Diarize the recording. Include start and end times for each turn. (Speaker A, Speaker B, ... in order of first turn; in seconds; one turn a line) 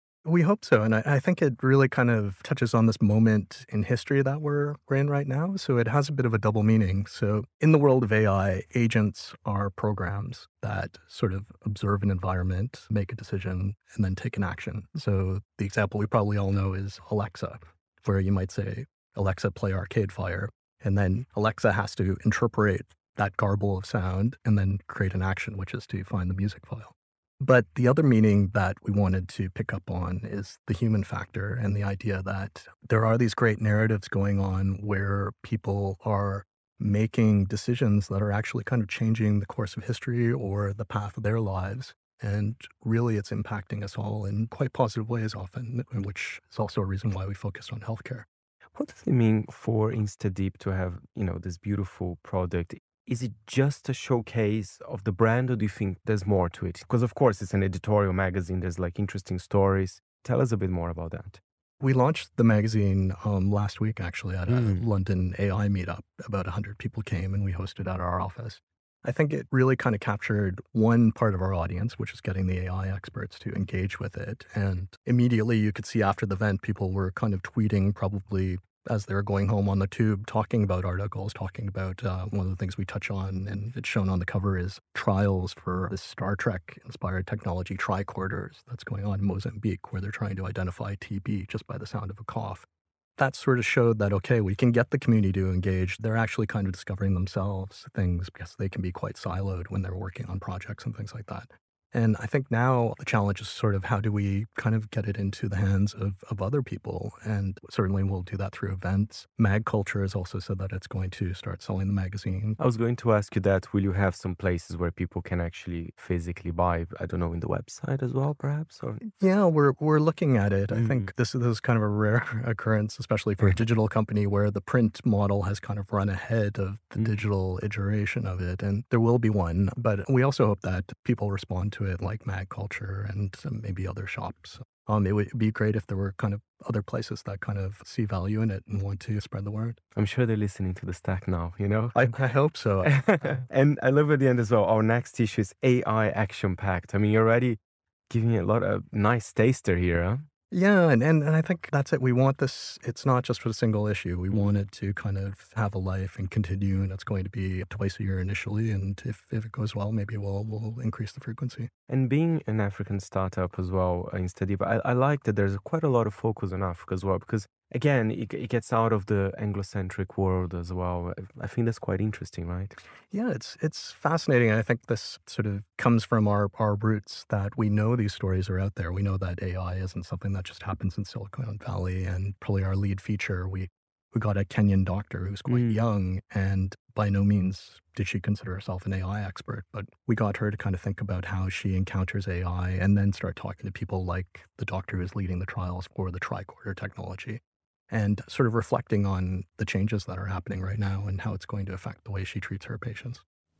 Speaker A: 0.2-48.2
Speaker B: 48.8-61.4
Speaker A: 61.8-92.7
Speaker B: 64.5-64.8
Speaker A: 93.2-112.6
Speaker B: 112.6-119.0
Speaker A: 119.0-139.8
Speaker B: 120.7-121.1
Speaker B: 139.9-142.0
Speaker A: 141.9-143.4
Speaker B: 142.8-147.6
Speaker B: 148.1-150.3
Speaker A: 150.5-161.7
Speaker B: 161.9-172.8
Speaker A: 173.1-203.2
Speaker B: 185.5-185.8